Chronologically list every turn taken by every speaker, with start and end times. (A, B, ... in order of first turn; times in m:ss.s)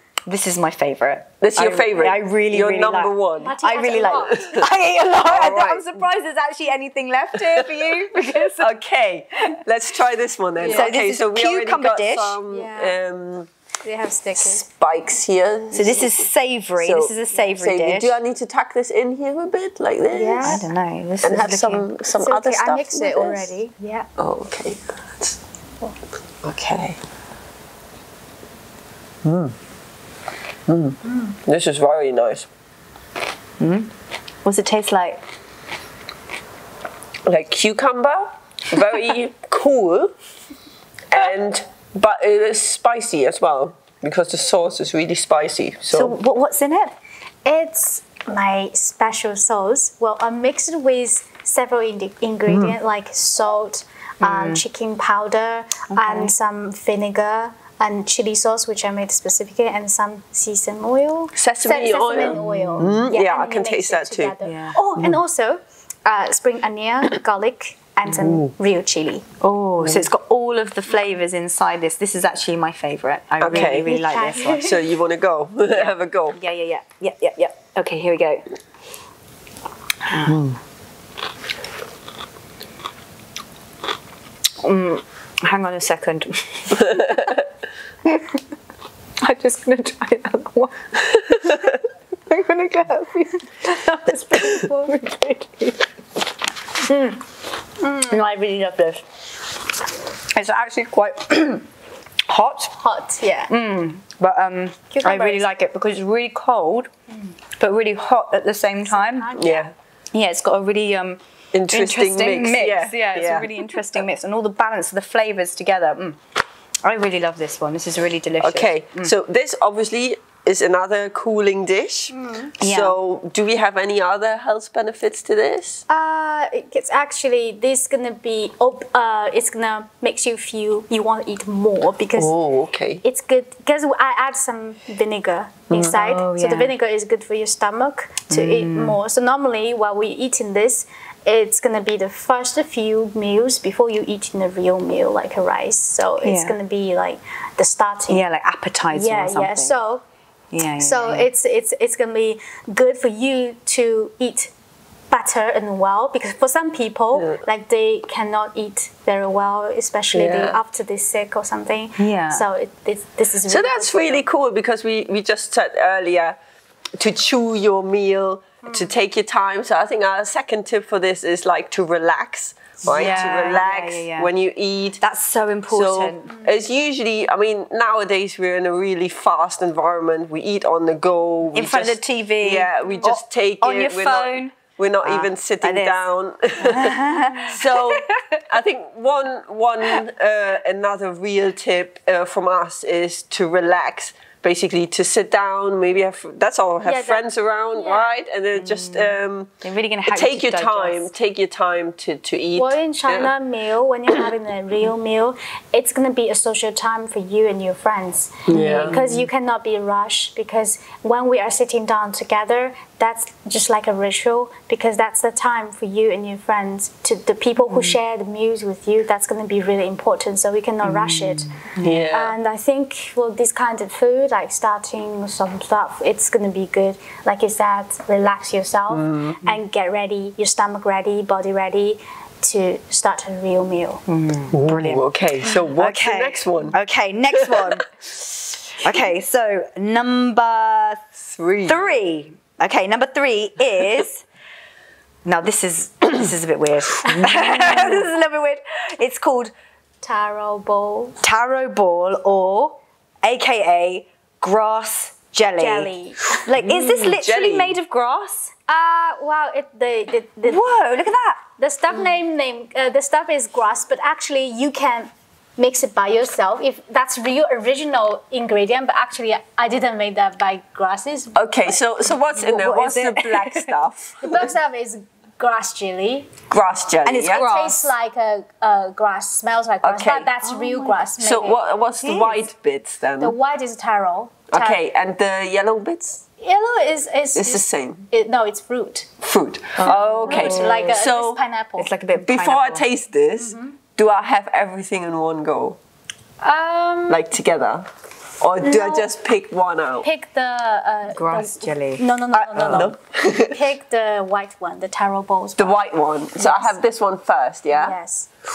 0:00.2-0:08.7 A
0:01.4-0:03.6 B
0:03.4-0:04.6 C
0:04.1-0:04.7 B
0:05.2-0:06.0 B
0:07.4-0:13.5 B
0:10.6-0:10.9 C
0:10.6-0:12.4 A
0:12.5-0:13.0 C
0:13.8-0:14.6 C
0:14.4-0:16.2 B
0:15.7-0:18.1 A
0:16.8-0:20.6 B
0:20.1-0:20.7 C
0:20.4-0:21.9 A
0:21.2-0:23.5 B
0:22.2-0:24.1 C
0:24.2-0:25.4 B
0:26.4-0:27.0 B
0:29.2-0:29.5 B
0:30.7-0:32.5 B
0:31.0-0:31.4 C
0:33.6-0:33.9 A
0:34.4-0:35.2 A
0:37.2-0:40.1 B
0:41.1-0:46.2 B
0:45.9-0:47.0 A
0:47.4-1:09.2 C
0:52.5-0:52.7 B
0:54.2-0:54.6 A
0:55.9-0:56.3 A
1:01.3-1:04.3 B
1:02.3-1:03.0 A
1:04.4-1:04.8 A
1:08.1-1:08.5 B
1:09.4-1:14.8 A
1:09.8-1:10.1 B
1:13.4-1:16.4 B
1:13.5-1:14.9 C
1:15.7-1:18.4 A
1:20.0-1:20.4 A
1:20.2-1:20.6 B
1:24.6-1:27.3 A
1:28.0-1:28.4 A
1:29.2-1:31.7 A
1:32.3-1:35.8 A
1:34.3-1:34.9 C
1:36.8-1:37.2 A
1:37.8-1:38.2 C
1:38.1-1:39.0 A
1:40.3-1:41.7 A
1:42.2-1:42.7 A
1:42.8-1:43.5 C
1:43.5-1:46.9 A
1:44.9-1:45.4 C
1:47.6-1:49.3 A
1:48.9-1:49.7 C
1:49.4-1:49.7 B
1:50.1-1:56.2 A
1:51.5-1:53.5 B
1:56.8-1:59.1 A
1:58.4-2:05.8 B
2:02.1-2:02.5 C
2:02.6-2:03.0 A
2:05.9-2:12.3 C
2:12.2-2:13.0 B
2:13.0-2:28.2 C
2:15.9-2:16.7 A
2:18.3-2:19.0 A
2:26.2-2:26.5 A
2:28.1-2:29.8 A
2:28.9-2:30.0 C
2:30.5-2:31.3 A
2:30.8-2:34.5 C
2:35.1-2:44.2 C
2:40.1-2:40.6 B
2:42.0-2:42.4 A
2:43.5-2:46.4 B
2:47.0-2:55.0 B
2:48.6-2:48.9 C
2:52.8-2:54.3 A
2:55.0-2:56.3 A
2:55.7-3:19.5 B
3:01.5-3:06.0 A
3:06.6-3:08.4 A
3:16.8-3:18.1 C
3:18.6-3:21.1 A
3:20.1-3:23.3 B
3:22.6-3:54.0 C
3:28.5-3:29.0 B
3:28.5-3:29.3 A
3:40.8-3:42.0 A
3:41.8-3:42.3 B
3:48.9-3:49.4 B
3:54.1-3:55.0 A
3:54.5-3:56.8 B
3:55.7-4:01.0 A
3:57.3-3:57.8 B
4:01.2-4:01.9 B
4:01.6-4:04.2 A
4:05.2-4:09.5 A
4:07.1-4:08.0 B
4:10.0-4:11.2 C
4:11.2-4:18.5 A
4:15.6-4:16.4 C
4:16.5-4:17.8 B
4:18.7-4:20.7 C
4:20.4-4:21.4 A
4:21.6-4:31.8 C
4:31.3-4:34.5 B
4:32.4-4:33.8 A
4:34.2-4:36.3 C
4:36.5-4:37.5 B
4:37.0-4:37.9 A
4:37.2-4:41.6 C
4:39.8-4:40.3 B
4:40.5-4:41.0 A
4:41.2-4:43.3 B
4:42.0-4:42.4 A
4:43.2-4:44.8 C
4:44.5-4:46.2 B
4:46.4-4:49.1 C
4:47.4-4:48.0 B
4:49.2-4:51.4 B
4:49.8-4:51.0 A
4:49.8-4:51.9 C
4:51.8-4:52.8 A
4:52.1-4:55.8 B
4:53.4-4:53.8 C
4:56.4-4:57.2 C
4:57.1-4:57.9 B
4:58.4-5:00.0 B
4:58.6-4:59.1 C
5:00.0-5:05.8 C
5:01.1-5:02.9 A
5:02.3-5:03.6 B
5:05.6-5:08.0 B
5:06.4-5:06.8 C
5:07.7-5:08.3 C